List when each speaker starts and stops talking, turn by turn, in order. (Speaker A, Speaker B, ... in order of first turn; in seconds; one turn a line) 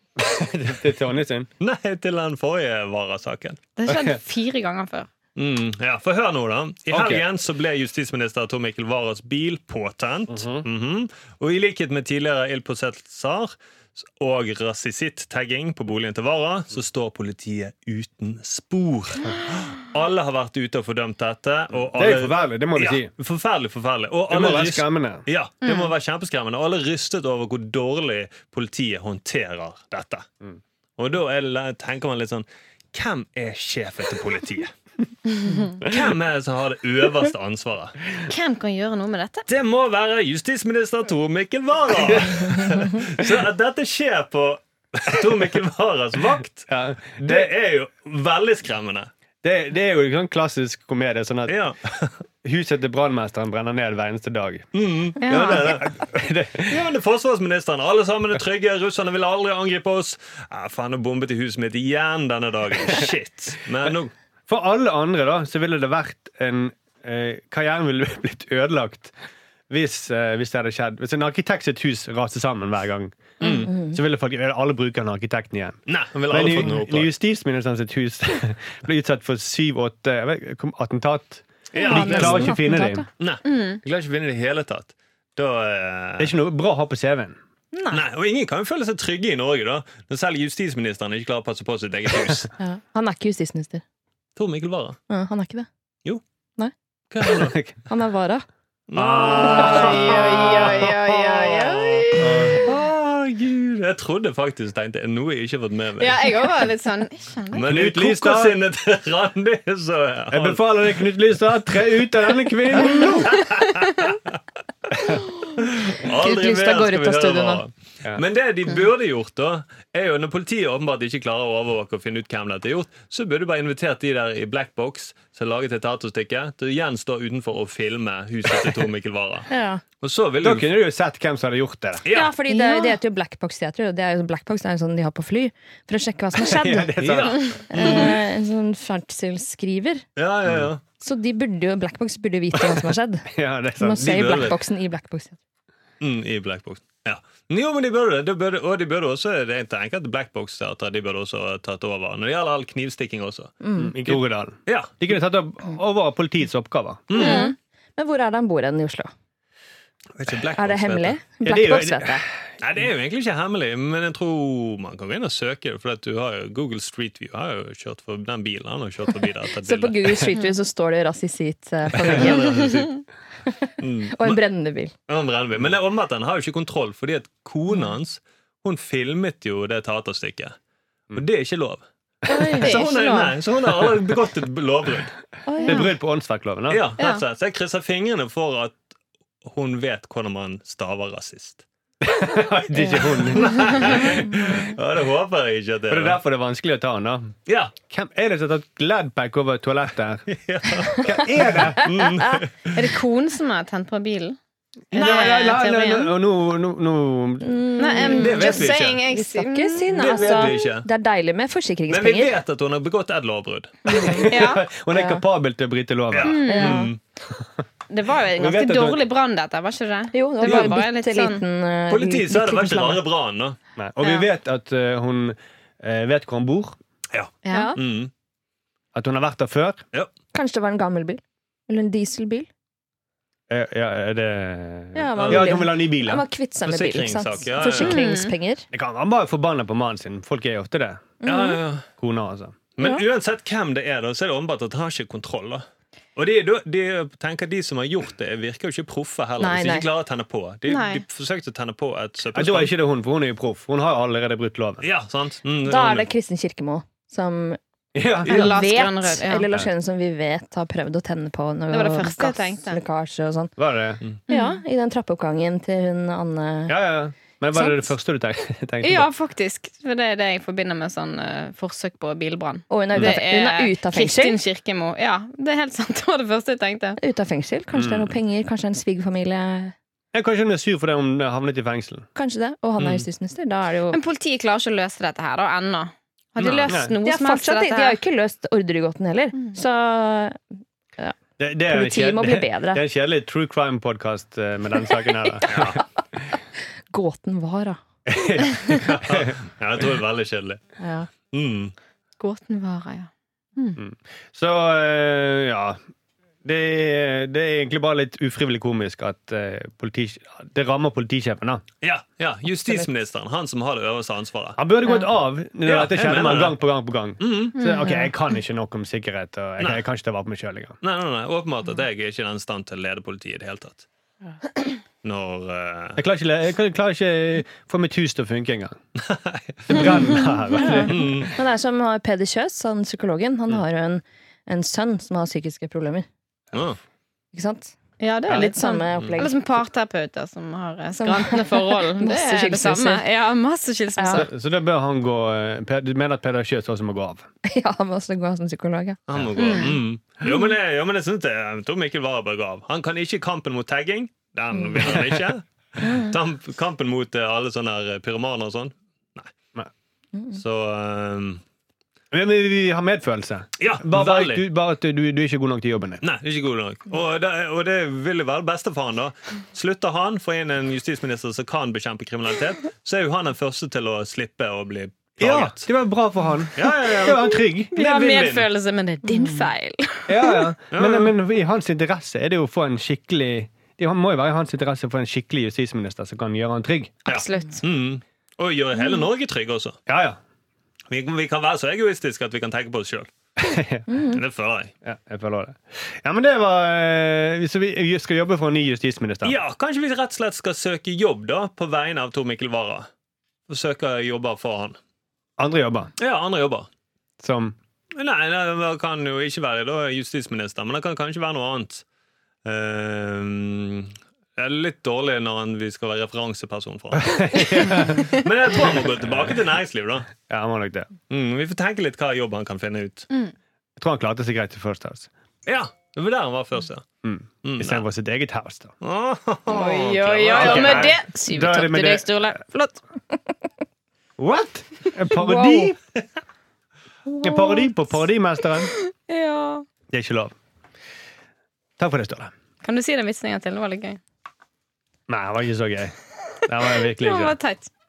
Speaker A: 0.2-1.5
Speaker B: 1.6-3.6
Speaker C: 3.8-5.1
Speaker A: 3.9-4.2
Speaker B: 5.3-13.5
Speaker A: 6.9-7.2
Speaker A: 10.3-10.6
Speaker B: 14.1-30.3
Speaker A: 21.9-23.1
Speaker A: 24.3-25.2
Speaker C: 25.6-25.9
Speaker B: 31.0-34.7
Speaker C: 35.3-35.8
Speaker B: 35.8-38.0
Speaker C: 38.3-39.4
Speaker B: 39.5-49.1
Speaker A: 41.9-43.3
Speaker A: 46.7-47.5
Speaker A: 49.4-51.5
Speaker B: 51.5-52.1
Speaker A: 52.4-54.7
Speaker B: 54.7-55.9
Speaker C: 55.2-55.8
Speaker A: 55.2-56.8
Speaker B: 56.7-64.1
Speaker A: 64.5-69.1
Speaker A: 69.7-83.1
Speaker B: 73.4-73.7
Speaker C: 73.4-73.7
Speaker D: 73.4-74.0
Speaker B: 75.9-77.1
Speaker B: 81.7-82.7
Speaker D: 81.8-83.0
Speaker B: 83.2-86.3
Speaker C: 83.4-83.8
Speaker A: 86.2-87.3
Speaker D: 87.7-88.0
Speaker B: 87.9-92.5
Speaker D: 92.6-93.8
Speaker B: 94.3-95.0
Speaker D: 95.1-95.7
Speaker B: 97.1-97.6
Speaker A: 97.2-97.7
Speaker D: 97.9-98.4
Speaker B: 98.9-106.7
Speaker A: 98.9-100.7
Speaker C: 99.0-102.5
Speaker A: 102.2-102.7
Speaker C: 106.0-107.7
Speaker B: 107.5-110.7
Speaker A: 107.7-108.6
Speaker A: 110.3-113.4
Speaker B: 112.7-114.3
Speaker B: 115.6-129.5
Speaker D: 116.0-117.6
Speaker D: 129.5-129.8
Speaker B: 130.0-130.7
Speaker A: 130.4-132.0
Speaker B: 132.0-132.3
Speaker D: 132.1-137.0
Speaker C: 132.5-133.0
Speaker A: 136.3-137.6
Speaker B: 137.0-138.2
Speaker C: 137.4-138.1
Speaker D: 137.7-140.0
Speaker B: 140.2-140.8
Speaker D: 141.0-143.3
Speaker A: 143.3-144.6
Speaker D: 143.8-145.4
Speaker B: 146.0-153.5
Speaker D: 153.6-153.9
Speaker A: 153.8-157.1
Speaker B: 154.1-155.0
Speaker B: 157.1-157.5
Speaker D: 157.1-159.1
Speaker C: 157.1-157.5
Speaker B: 160.2-161.2
Speaker D: 160.6-162.2
Speaker A: 161.4-162.2
Speaker B: 162.6-170.2
Speaker D: 169.6-172.4
Speaker B: 171.9-173.0
Speaker D: 173.6-174.9
Speaker B: 173.8-174.4
Speaker B: 175.1-180.6
Speaker B: 181.1-181.8
Speaker D: 182.3-182.8
Speaker C: 182.3-183.3
Speaker B: 182.6-185.1
Speaker D: 185.5-185.9
Speaker A: 185.6-186.8
Speaker B: 186.7-188.8
Speaker B: 189.4-191.6
Speaker A: 192.0-194.5
Speaker D: 192.8-194.2
Speaker B: 193.3-196.2
Speaker A: 195.9-197.3
Speaker B: 197.5-197.7
Speaker A: 197.9-200.3
Speaker B: 200.3-202.7
Speaker A: 200.9-201.9
Speaker D: 201.4-202.3
Speaker C: 202.7-204.4
Speaker A: 204.9-207.6
Speaker C: 204.9-206.1
Speaker B: 204.9-205.3
Speaker D: 207.4-212.3
Speaker C: 207.8-210.5
Speaker B: 207.9-209.0
Speaker B: 209.9-210.9
Speaker B: 211.9-214.3
Speaker D: 213.8-214.3
Speaker A: 214.0-216.5
Speaker C: 214.3-214.6
Speaker D: 214.9-215.2
Speaker B: 216.1-217.0
Speaker C: 216.2-216.9
Speaker D: 216.4-216.9
Speaker C: 217.9-221.4
Speaker A: 218.3-219.0
Speaker D: 220.1-223.0
Speaker B: 220.5-220.7
Speaker B: 221.9-223.6
Speaker A: 223.8-226.8
Speaker B: 227.1-228.1
Speaker C: 227.4-227.8
Speaker D: 227.5-227.8
Speaker A: 228.9-229.8
Speaker D: 230.3-232.5
Speaker A: 233.5-236.2
Speaker D: 234.9-238.7
Speaker B: 235.2-235.6
Speaker B: 236.6-238.1
Speaker C: 237.6-238.3
Speaker A: 238.7-241.1
Speaker D: 241.2-241.6
Speaker B: 241.2-241.8
Speaker A: 242.0-242.6
Speaker B: 242.8-245.6
Speaker B: 246.2-252.7
Speaker D: 249.4-249.9
Speaker C: 250.7-251.0
Speaker A: 252.3-254.8
Speaker B: 254.8-256.1
Speaker D: 255.6-257.6
Speaker A: 257.9-258.6
Speaker D: 258.2-263.5
Speaker C: 258.2-259.4
Speaker C: 261.7-262.8
Speaker A: 263.6-264.0
Speaker C: 264.3-264.6
Speaker D: 264.3-266.8
Speaker A: 266.7-269.1
Speaker D: 267.5-267.9
Speaker C: 268.8-277.0
Speaker D: 272.7-274.4
Speaker D: 277.0-279.7
Speaker A: 277.7-278.1
Speaker A: 280.1-282.1
Speaker D: 282.1-284.0
Speaker B: 282.8-283.0
Speaker C: 283.9-288.0
Speaker B: 286.4-286.8
Speaker A: 286.7-286.9
Speaker D: 287.0-290.4
Speaker A: 291.4-296.2
Speaker D: 291.7-292.8
Speaker B: 295.5-295.8
Speaker D: 296.9-297.8
Speaker A: 298.1-299.3
Speaker D: 298.4-298.9
Speaker B: 298.8-300.6
Speaker D: 300.8-301.1
Speaker B: 301.3-301.7
Speaker C: 302.2-303.8
Speaker A: 303.8-305.8
Speaker A: 306.4-311.6
Speaker B: 311.8-314.6
Speaker A: 314.6-320.8
Speaker B: 315.6-316.6
Speaker B: 317.2-317.5
Speaker B: 320.8-323.9
Speaker B: 325.0-326.0
Speaker A: 325.9-328.8
Speaker B: 329.0-330.2
Speaker A: 329.7-331.3
Speaker D: 330.6-336.1
Speaker B: 330.9-331.3
Speaker B: 336.5-336.8
Speaker D: 337.3-337.7
Speaker C: 338.0-344.3
Speaker D: 338.3-339.4
Speaker D: 341.0-343.0
Speaker D: 344.0-344.3
Speaker A: 344.1-347.2
Speaker D: 347.4-349.0
Speaker B: 349.1-359.3
Speaker C: 349.4-349.7
Speaker D: 355.8-356.1
Speaker B: 360.3-361.4
Speaker A: 362.1-366.0
Speaker B: 363.6-364.4
Speaker B: 366.0-375.7
Speaker A: 375.2-377.8
Speaker B: 376.6-378.5
Speaker C: 377.7-380.5
Speaker D: 379.0-379.5
Speaker A: 380.1-387.0
Speaker B: 380.7-381.1
Speaker C: 387.0-387.6
Speaker B: 387.1-389.8
Speaker A: 389.9-390.2
Speaker B: 390.9-393.1
Speaker A: 393.4-393.9
Speaker D: 393.9-394.2
Speaker B: 394.1-394.7
Speaker A: 394.8-399.4
Speaker B: 399.2-402.9
Speaker B: 403.5-404.8
Speaker A: 405.4-405.9
Speaker B: 406.0-406.7
Speaker A: 407.2-407.5
Speaker B: 407.9-411.8
Speaker B: 412.4-420.1
Speaker A: 416.9-418.0
Speaker A: 420.3-420.9
Speaker B: 421.1-423.1
Speaker A: 423.8-425.1
Speaker B: 425.4-426.8
Speaker A: 427.0-428.7
Speaker B: 427.4-427.8
Speaker B: 428.8-431.0
Speaker C: 429.5-432.8
Speaker A: 430.3-432.4
Speaker A: 434.2-435.8
Speaker D: 435.1-435.7
Speaker A: 437.2-438.7
Speaker C: 439.0-439.6
Speaker A: 439.9-440.3
Speaker A: 441.8-442.3
Speaker C: 442.6-444.0
Speaker A: 445.1-445.9
Speaker A: 446.4-447.4
Speaker C: 446.7-447.7